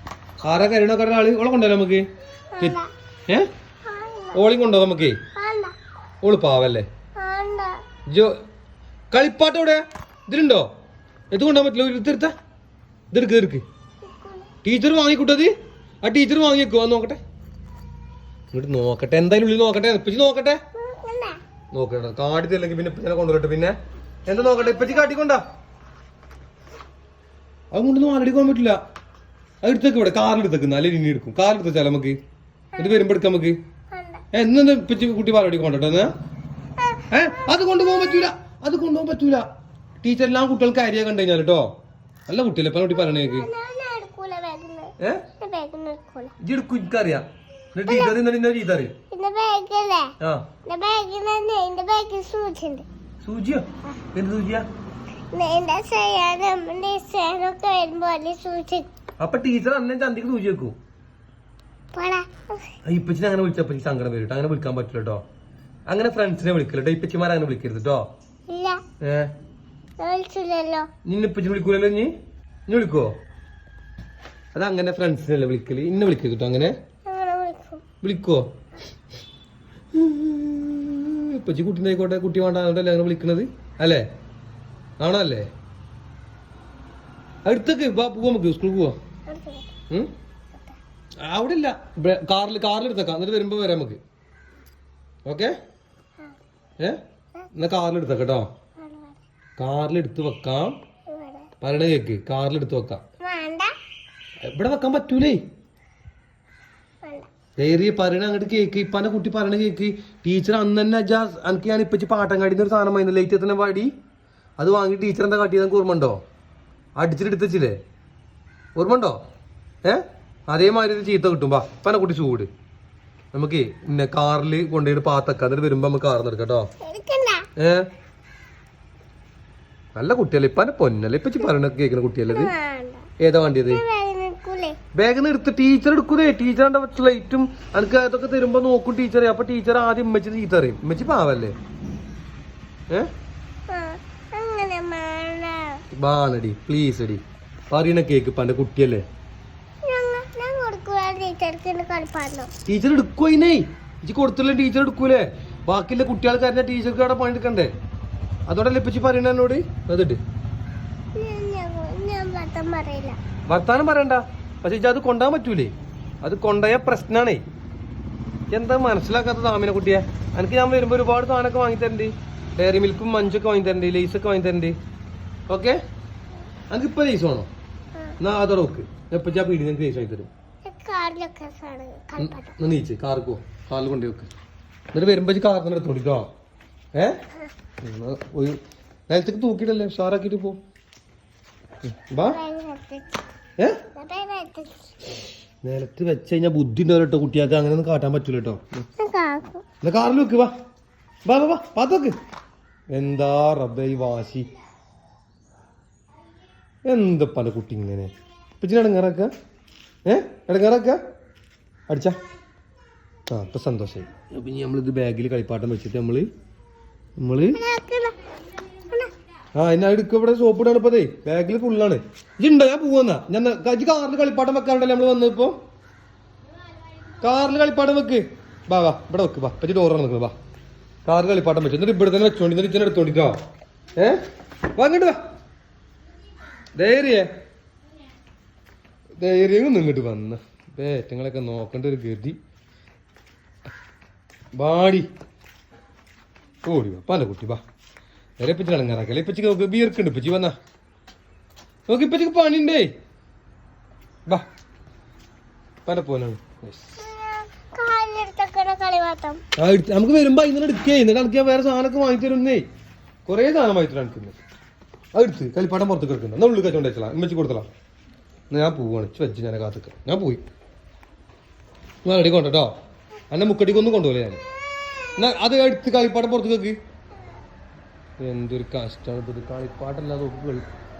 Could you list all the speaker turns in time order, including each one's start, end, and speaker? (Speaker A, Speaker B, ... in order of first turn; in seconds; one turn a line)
Speaker A: 0.4-2.0
Speaker B: 2.5-2.9
Speaker B: 3.8-4.4
Speaker A: 4.3-5.2
Speaker B: 5.4-5.7
Speaker A: 6.2-6.8
Speaker B: 7.2-7.8
Speaker A: 8.1-8.4
Speaker A: 9.1-10.7
Speaker A: 11.3-12.3
Speaker A: 13.1-13.6
Speaker B: 14.0-14.5
Speaker A: 14.6-15.5
Speaker A: 16.0-17.2
Speaker A: 18.5-20.6
Speaker B: 20.7-21.4
Speaker A: 21.7-23.7
Speaker A: 24.2-25.4
Speaker B: 24.3-25.1
Speaker A: 27.7-28.8
Speaker A: 29.6-32.2
Speaker B: 32.7-33.0
Speaker A: 32.8-33.5
Speaker B: 33.9-34.2
Speaker A: 34.3-36.1
Speaker B: 36.8-38.1
Speaker A: 37.1-39.5
Speaker A: 40.0-41.7
Speaker A: 42.3-43.5
Speaker B: 42.9-46.3
Speaker A: 45.0-45.2
Speaker A: 46.4-48.9
Speaker B: 47.8-48.2
Speaker B: 49.1-50.1
Speaker A: 50.2-50.5
Speaker B: 50.7-52.9
Speaker A: 53.2-54.7
Speaker B: 55.3-58.9
Speaker A: 59.2-60.7
Speaker B: 61.9-62.6
Speaker A: 62.9-65.2
Speaker A: 65.9-68.1
Speaker B: 68.5-68.8
Speaker A: 69.0-69.3
Speaker B: 70.0-70.9
Speaker A: 71.1-72.1
Speaker A: 72.7-73.1
Speaker A: 74.5-76.7
Speaker B: 77.1-77.8
Speaker A: 78.0-78.5
Speaker A: 79.9-84.0
Speaker A: 85.0-85.5
Speaker A: 87.5-89.0
Speaker B: 89.3-89.7
Speaker A: 91.2-94.0
Speaker A: 95.3-95.5
Speaker A: 97.5-98.5
Speaker B: 98.8-99.2
Speaker A: 99.6-100.8
Speaker B: 101.1-101.5
Speaker A: 101.6-103.0
Speaker B: 103.2-103.7
Speaker A: 104.4-105.4
Speaker A: 107.6-113.9
Speaker A: 114.6-116.2
Speaker A: 117.0-117.8
Speaker A: 118.8-119.2
Speaker A: 119.8-122.5
Speaker A: 123.3-126.7
Speaker B: 126.8-127.5
Speaker A: 127.6-127.9
Speaker A: 129.9-132.5
Speaker B: 132.3-133.1
Speaker A: 133.2-133.8
Speaker B: 133.7-134.8
Speaker A: 134.9-141.5
Speaker B: 143.7-145.8
Speaker A: 145.9-149.0
Speaker B: 149.8-152.5
Speaker A: 152.7-157.7
Speaker A: 158.5-160.2
Speaker B: 161.2-163.2
Speaker A: 163.5-167.4
Speaker A: 168.5-174.8
Speaker A: 175.5-175.8
Speaker A: 176.7-177.5
Speaker A: 178.2-180.3
Speaker B: 180.6-182.6
Speaker A: 182.2-184.3
Speaker A: 184.9-186.3
Speaker A: 187.8-190.6
Speaker A: 191.9-192.4
Speaker B: 192.2-193.2
Speaker B: 193.9-194.9
Speaker A: 195.6-198.8
Speaker B: 199.0-199.6
Speaker A: 199.8-200.5
Speaker A: 201.2-202.2
Speaker A: 202.9-204.5
Speaker A: 206.8-209.3
Speaker A: 210.1-211.0
Speaker A: 211.9-212.2
Speaker A: 213.3-216.3
Speaker A: 217.2-217.6
Speaker B: 217.5-219.1
Speaker A: 219.5-225.6
Speaker A: 227.2-230.3
Speaker A: 231.0-233.4
Speaker A: 234.0-234.2
Speaker A: 234.8-235.2
Speaker A: 236.8-237.3
Speaker A: 239.2-242.4
Speaker A: 244.6-245.1
Speaker A: 246.6-247.6
Speaker A: 248.4-250.5
Speaker A: 251.9-252.9
Speaker A: 255.8-256.9
Speaker B: 257.0-259.4
Speaker A: 259.6-262.6
Speaker A: 263.2-264.4
Speaker A: 265.1-267.7
Speaker A: 268.5-270.4
Speaker A: 272.1-272.7
Speaker A: 273.3-274.4
Speaker A: 275.2-276.8
Speaker A: 278.2-280.7